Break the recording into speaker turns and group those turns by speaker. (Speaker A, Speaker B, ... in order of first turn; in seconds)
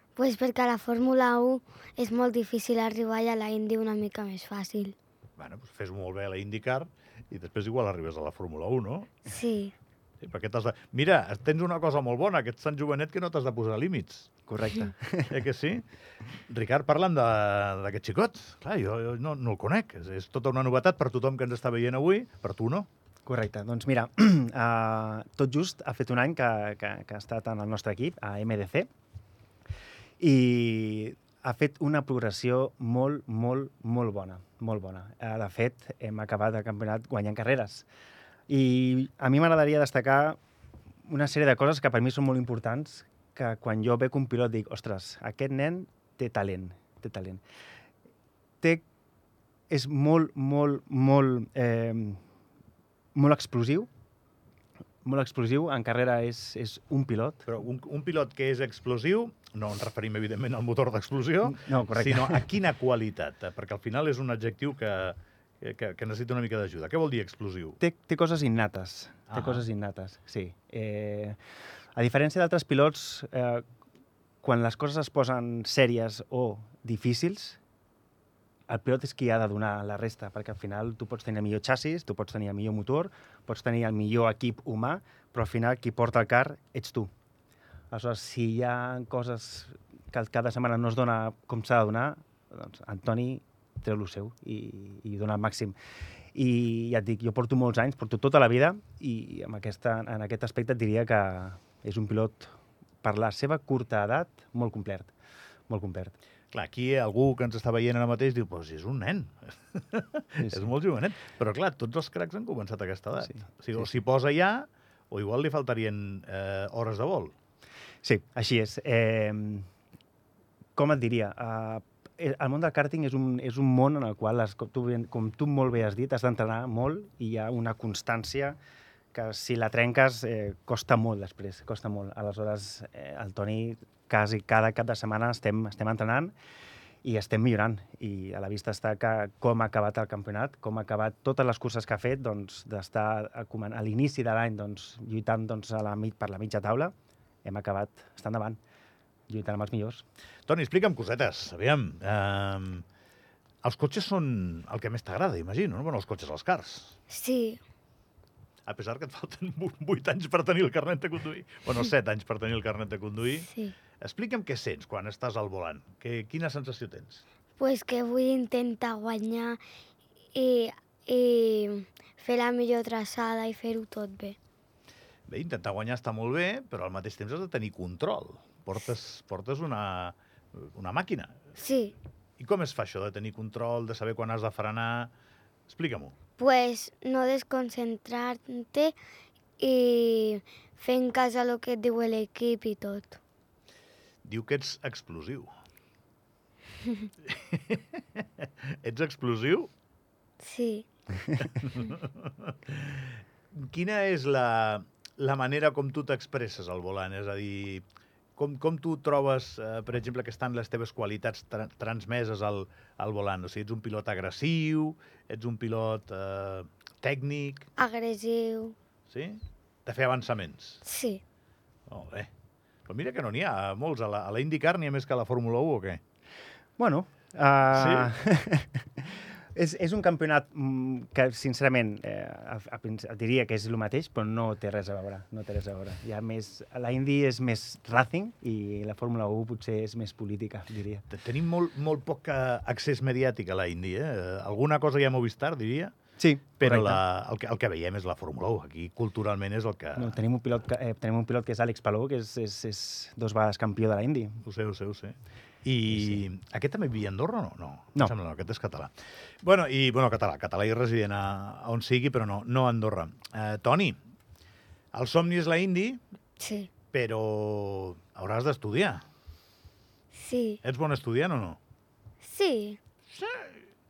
Speaker A: 0.2-5.0, 9.3-9.7, 157.1-157.6, 163.4-163.8, 167.6-169.6, 170.3-174.4, 181.6-181.9, 186.4-189.0, 189.6-193.2, 200.4-200.9, 217.8-218.8, 220.8-221.2, 266.4-266.7, 270.1-270.6, 272.2-272.8
Speaker B: 5.4-9.2, 10.2-14.3, 15.3-15.9, 16.5-22.9, 57.5-67.8, 69.3-69.7, 106.5-117.3, 150.5-152.8, 153.6-157.0, 158.7-163.5, 164.0-167.2, 175.3-181.4, 182.4-185.1, 185.7-186.2, 194.2-195.5, 197.3-199.7, 201.4-207.8, 208.4-217.7, 219.1-220.8, 221.9-222.3, 222.9-226.0, 227.7-228.1, 241.1-245.9, 246.6-250.2, 254.4-264.0, 264.9-266.0, 266.9-269.0, 270.6-271.6, 273.2-273.5
Speaker C: 14.5-15.4, 23.3-28.9, 30.2-37.9, 38.5-40.4, 41.0-47.4, 49.7-52.2, 53.1-53.9, 55.0-57.5, 61.5-62.5, 67.8-71.4, 72.0-73.7, 74.4-77.6, 78.7-87.1, 87.9-95.8, 96.3-105.1, 105.7-106.2, 110.4-110.7, 118.0-119.7, 120.8-128.6, 129.1-136.3, 137.0-148.6, 149.3-150.0, 226.8-241.1, 246.2-247.0, 250.0-254.4